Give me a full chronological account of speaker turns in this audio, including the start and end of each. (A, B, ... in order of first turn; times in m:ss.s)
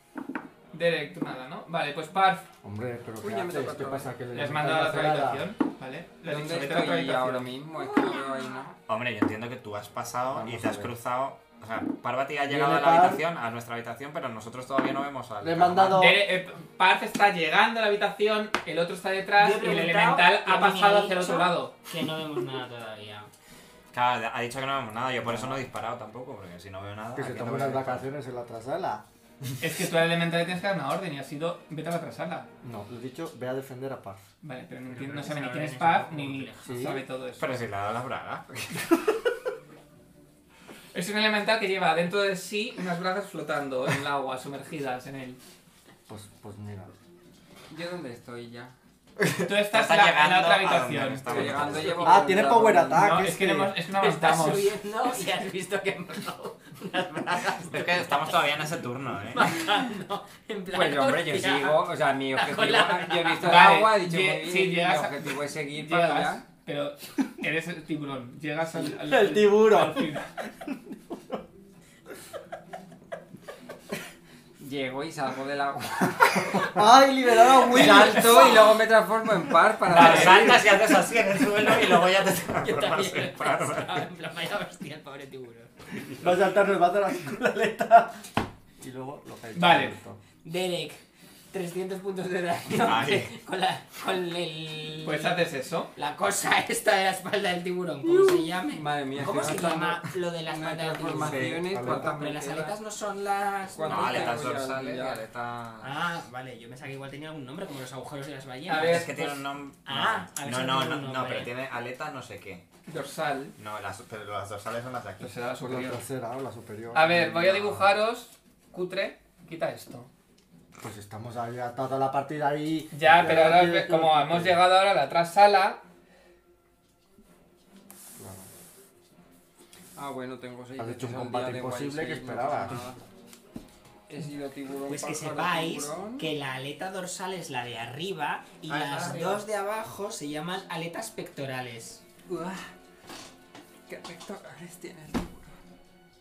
0:00.7-0:02.5 A
0:02.6-0:05.5 B
0:03.2-0:04.1 C
0:04.3-0:07.5 A
0:06.2-0:08.7 C
0:08.9-0:16.1 D
0:10.3-0:10.9 B
0:12.4-0:13.2 B
0:15.4-0:16.2 B
0:15.9-0:21.7 A
0:19.4-0:23.3 E
0:23.9-0:28.1 D
0:25.2-0:25.6 B
0:27.1-0:29.0 B
0:29.6-0:32.5 A
0:32.6-0:34.2 B
0:34.4-0:37.5 A
0:34.8-0:37.0 E
0:36.6-0:37.0 B
0:37.4-0:39.0 D
0:40.9-0:45.4 A
0:46.1-0:46.9 B
0:47.7-0:48.7 C
0:49.2-0:52.3 D
0:49.4-0:51.9 A
0:51.2-0:53.1 C
0:52.0-0:53.7 B
0:52.9-0:54.8 A
0:54.0-0:58.4 E
0:57.6-0:59.6 D
0:59.3-1:03.7 E
1:00.7-1:06.4 C
1:03.4-1:10.3 A
1:08.8-1:11.4 B
1:14.6-1:16.8 C
1:16.6-1:18.6 B
1:17.4-1:20.6 C
1:17.8-1:18.5 A
1:19.9-1:24.0 D
1:19.9-1:20.6 A
1:22.5-1:25.7 E
1:26.0-1:26.4 D
1:26.2-1:28.2 B
1:28.8-1:30.2 B
1:29.5-1:29.9 A
1:30.4-1:44.5 E
1:32.8-1:33.3 D
1:35.0-1:35.9 A
1:38.0-1:42.8 C
1:39.2-1:39.5 D
1:41.2-1:41.6 D
1:41.6-1:42.1 B
1:43.7-1:45.2 C
1:43.8-1:45.9 D
1:45.8-1:51.5 E
1:48.7-1:49.3 A
1:48.7-1:52.6 D
1:52.8-1:53.6 A
1:53.6-1:55.3 D
1:55.2-1:56.0 A
1:55.6-1:57.7 B
1:56.9-2:00.1 A
2:00.8-2:04.6 B
2:02.9-2:05.8 A
2:08.2-2:08.5 B
2:10.0-2:13.0 C
2:10.8-2:12.8 B
2:14.1-2:16.3 C
2:14.9-2:22.0 E
2:18.8-2:19.2 A
2:22.3-2:22.6 C
2:23.9-2:25.5 C